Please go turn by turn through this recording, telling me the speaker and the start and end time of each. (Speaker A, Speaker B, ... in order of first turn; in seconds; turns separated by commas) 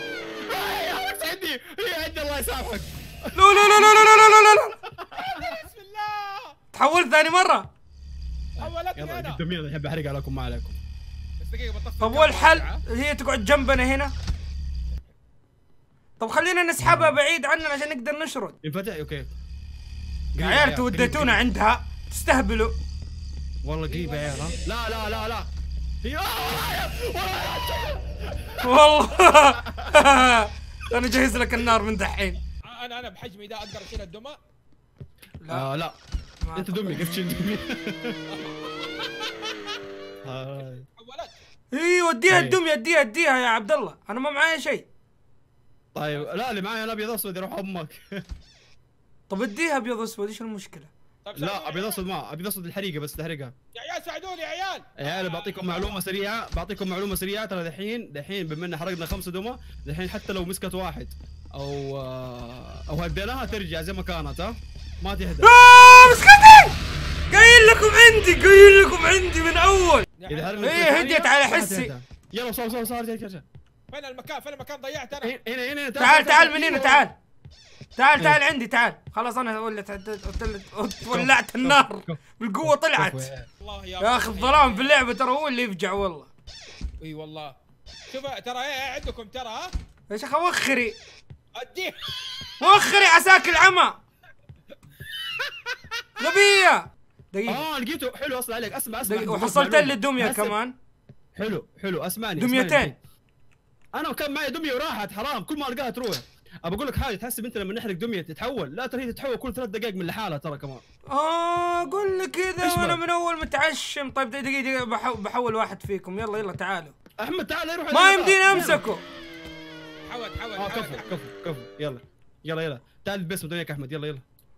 Speaker A: 0.5-4.4, Speaker B: 3.4-4.7, Speaker A: 4.9-5.6, Speaker C: 5.1-6.6, Speaker B: 6.7-7.7, Speaker A: 8.6-10.8, Speaker C: 8.6-9.4, Speaker C: 11.4-12.8, Speaker B: 12.0-14.1, Speaker B: 16.2-18.6, Speaker A: 16.9-17.1, Speaker A: 18.6-19.3, Speaker A: 20.3-21.4, Speaker B: 20.4-22.8, Speaker A: 23.6-25.5, Speaker C: 23.9-25.3, Speaker A: 26.0-28.7, Speaker B: 28.6-32.4, Speaker A: 29.3-30.1, Speaker C: 32.6-34.4, Speaker B: 35.4-35.7, Speaker A: 35.5-36.0, Speaker B: 36.4-37.0, Speaker A: 36.5-38.2, Speaker C: 38.3-39.5, Speaker A: 40.2-40.8, Speaker C: 40.6-41.3, Speaker B: 41.7-44.9, Speaker A: 42.3-42.6, Speaker A: 46.0-48.2, Speaker C: 46.0-46.5, Speaker B: 49.3-50.9, Speaker C: 51.2-52.0, Speaker A: 51.4-53.5, Speaker C: 53.7-56.0, Speaker A: 55.0-65.5, Speaker B: 65.4-66.7, Speaker B: 67.3-70.1, Speaker C: 70.2-70.9, Speaker A: 70.3-73.5, Speaker B: 70.6-71.9, Speaker C: 73.9-75.4, Speaker A: 75.2-77.1, Speaker B: 76.0-77.2, Speaker B: 78.0-83.3, Speaker A: 81.1-83.5, Speaker C: 83.6-85.0, Speaker B: 84.0-86.3, Speaker C: 87.0-87.6, Speaker C: 88.1-89.7, Speaker B: 90.1-91.0, Speaker C: 91.6-92.1, Speaker B: 92.6-94.0, Speaker B: 96.2-97.7, Speaker A: 97.5-100.6, Speaker B: 99.1-100.7, Speaker A: 101.4-103.0, Speaker B: 102.4-102.9, Speaker A: 104.0-110.8, Speaker B: 111.1-116.9, Speaker C: 111.8-112.4, Speaker A: 112.6-113.0, Speaker A: 117.2-118.9, Speaker B: 117.9-119.0, Speaker C: 120.1-121.2, Speaker A: 120.6-124.2